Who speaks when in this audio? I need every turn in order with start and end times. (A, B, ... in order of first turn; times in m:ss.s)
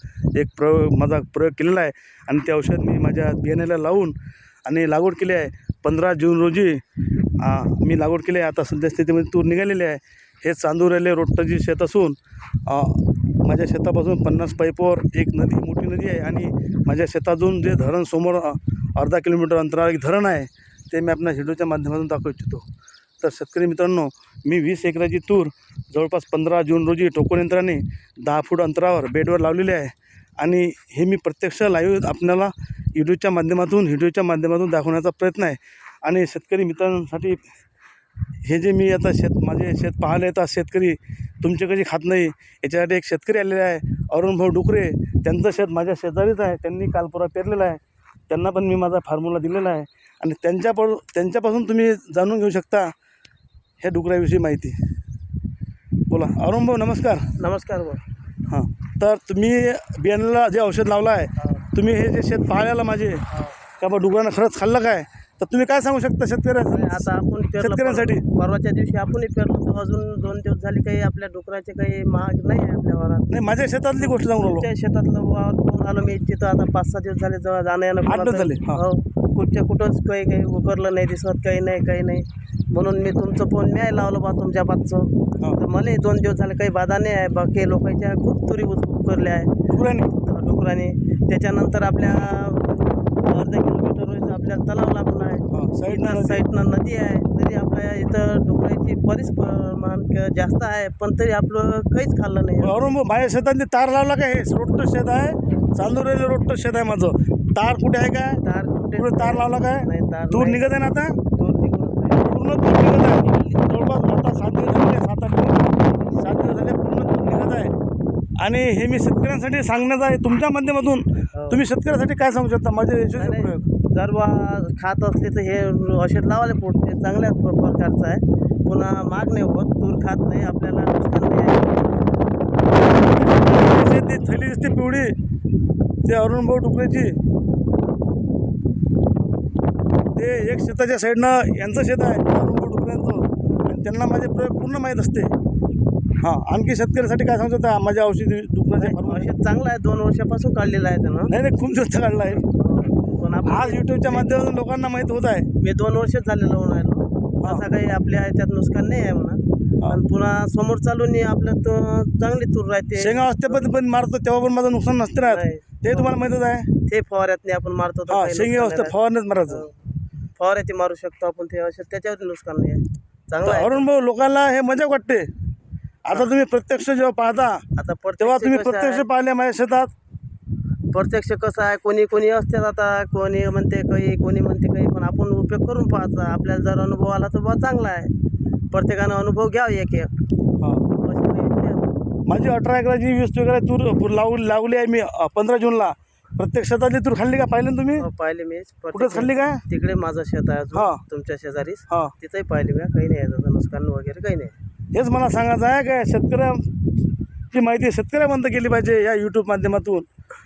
0:00.3-0:06.8 A
0:07.4-0:22.6 A
0:23.2-0:37.4 A
0:38.4-0:52.9 A
0:53.8-0:54.8 A
0:56.1-0:57.3 A
0:57.4-0:58.0 B
0:58.5-1:03.2 A
1:01.4-1:01.6 B
1:03.3-1:03.6 B
1:03.8-1:07.1 A
1:06.7-1:13.3 B
1:07.6-1:08.2 A
1:13.3-1:14.7 A
1:14.0-1:42.8 B
1:18.0-1:18.8 A
1:29.7-1:30.1 A
1:35.5-1:36.4 A
1:42.6-1:48.4 A
1:45.4-1:45.7 B
1:48.4-1:52.4 B
1:49.0-1:51.2 A
1:52.2-1:57.7 A
1:53.2-1:53.5 B
1:58.4-2:03.6 A
2:01.3-2:01.6 B
2:03.2-2:12.3 B
2:13.2-2:15.1 A
2:16.0-2:17.2 A
2:20.2-2:25.3 A
2:26.2-2:29.3 A
2:28.8-2:31.3 B
2:31.3-2:32.4 A
2:32.3-2:34.3 B
2:33.4-2:35.5 A
2:35.6-2:43.7 B
2:43.0-2:46.7 A
2:45.2-2:46.1 B
2:46.8-2:48.9 B
2:48.1-2:49.6 A
2:49.5-2:49.7 B
2:50.4-2:54.0 B
2:53.4-2:55.3 A
2:56.0-2:57.6 A
2:57.8-2:59.0 B
2:58.2-2:59.9 A
3:00.9-3:08.1 B
3:08.7-3:10.1 B
3:10.6-3:10.8 A
3:10.9-3:11.8 B
3:12.2-3:18.0 A
3:18.0-3:24.5 B
3:18.9-3:19.6 A
3:20.7-3:21.0 A
3:24.9-3:26.6 A
3:27.5-3:30.0 A